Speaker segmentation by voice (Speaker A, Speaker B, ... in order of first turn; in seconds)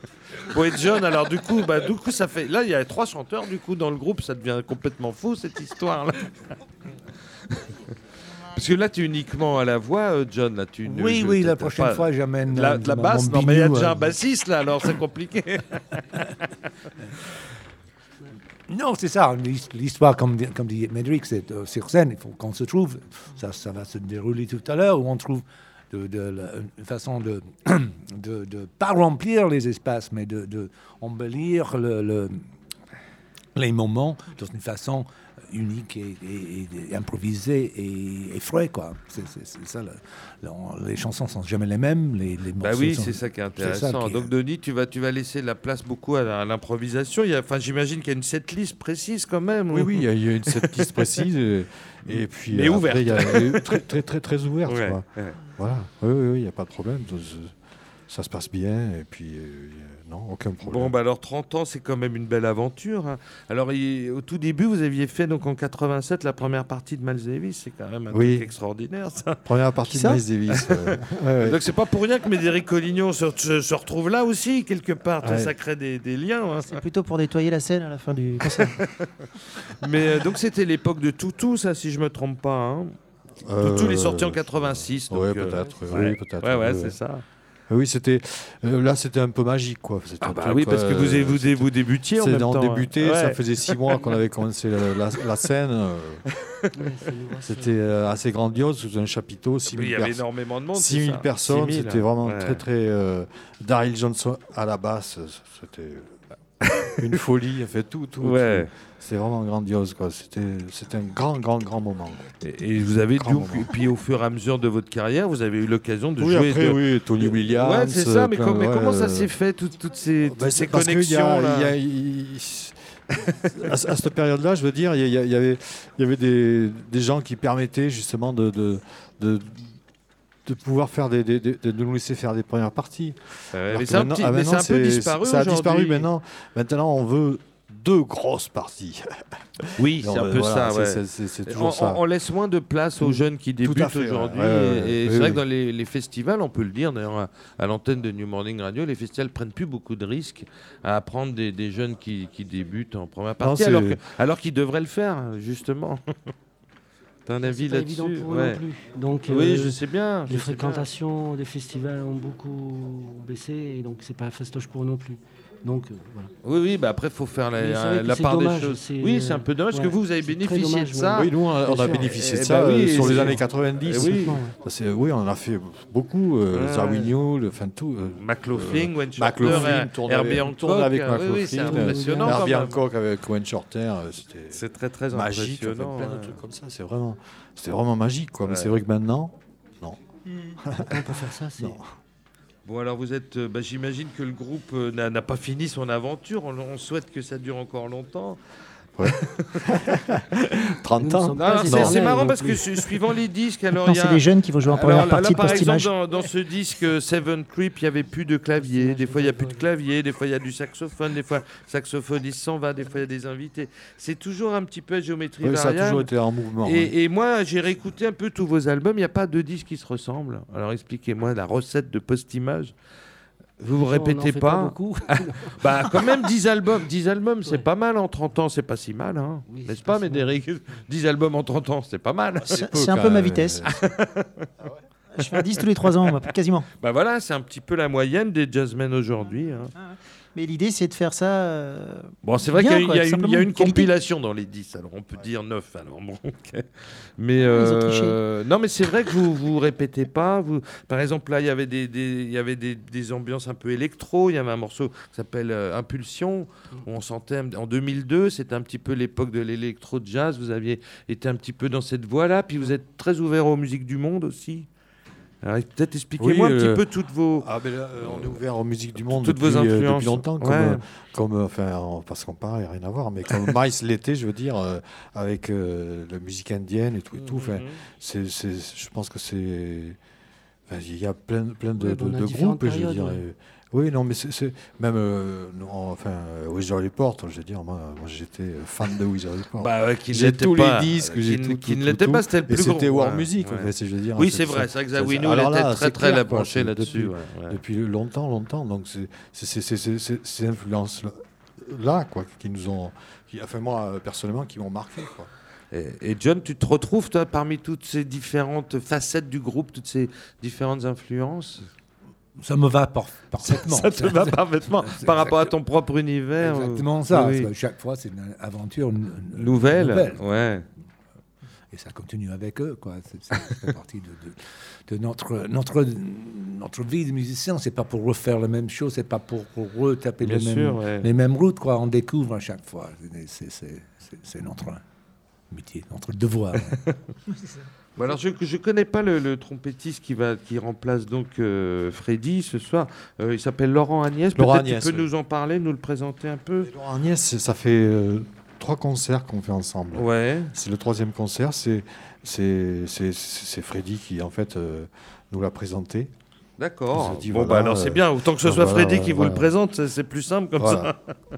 Speaker A: 0.3-6.5, 8.5-16.5, 42.6-51.3, 52.0-53.9, 54.7-55.4, 60.6-69.4, 70.5-76.8, 78.5-79.1, 79.6-83.0, 83.6-87.2, 90.2-94.2, 96.5-96.7, 99.7-102.6, 106.6-106.9, 108.2-108.7, 112.4-121.7, 123.3-123.7, 133.5-136.1, 139.8-156.0, 157.3-158.6, 159.3-160.9, 166.4-171.3, 171.9-174.4, 176.5-177.1, 178.2-182.8, 184.5-186.4, 188.5-188.8, 192.7-198.4, 199.0-200.2, 201.4-216.1, 216.6-222.7, 223.6-234.5, 235.3-239.7, 242.2-264.7, 265.4-268.4, 269.1-270.8, 277.1-277.8, 289.6-297.6, 305.7-311.7, 313.4-317.5, 319.4-320.7, 330.2-331.1, 338.0-346.7, 349.9-350.5, 356.6-361.1
Speaker B: 10.8-14.2, 18.7-32.4, 33.6-44.3, 312.4-315.5, 316.4-320.2, 321.7-334.8, 335.5-336.8
Speaker C: 49.7-57.5, 58.1-60.9, 68.1-68.5, 69.5-71.6, 75.2-75.5, 83.5-87.0, 87.7-96.2, 97.4-106.1, 106.9-113.7, 116.2-119.3, 120.3-122.8, 123.4-129.8, 130.5-142.0, 143.0-145.4, 153.4-154.0, 171.1-190.0, 190.6-191.9, 199.0-202.6, 215.4-216.9, 233.0-233.8, 266.2-266.9, 267.4-280.0, 280.7-305.3, 344.3-345.1, 346.6-356.1, 356.9-359.5, 360.6-360.9
Speaker D: 69.9-70.2, 76.7-78.8, 203.8-205.9, 232.4-233.7, 235.1-236.7, 239.8-243.9, 247.4-248.2
Speaker E: 96.8-97.8, 157.4-166.3, 167.6-172.3, 172.9-174.6, 181.6-182.5, 190.9-191.8, 201.0-202.7, 208.6-209.7, 223.7-226.3, 229.5-230.4, 281.8-283.2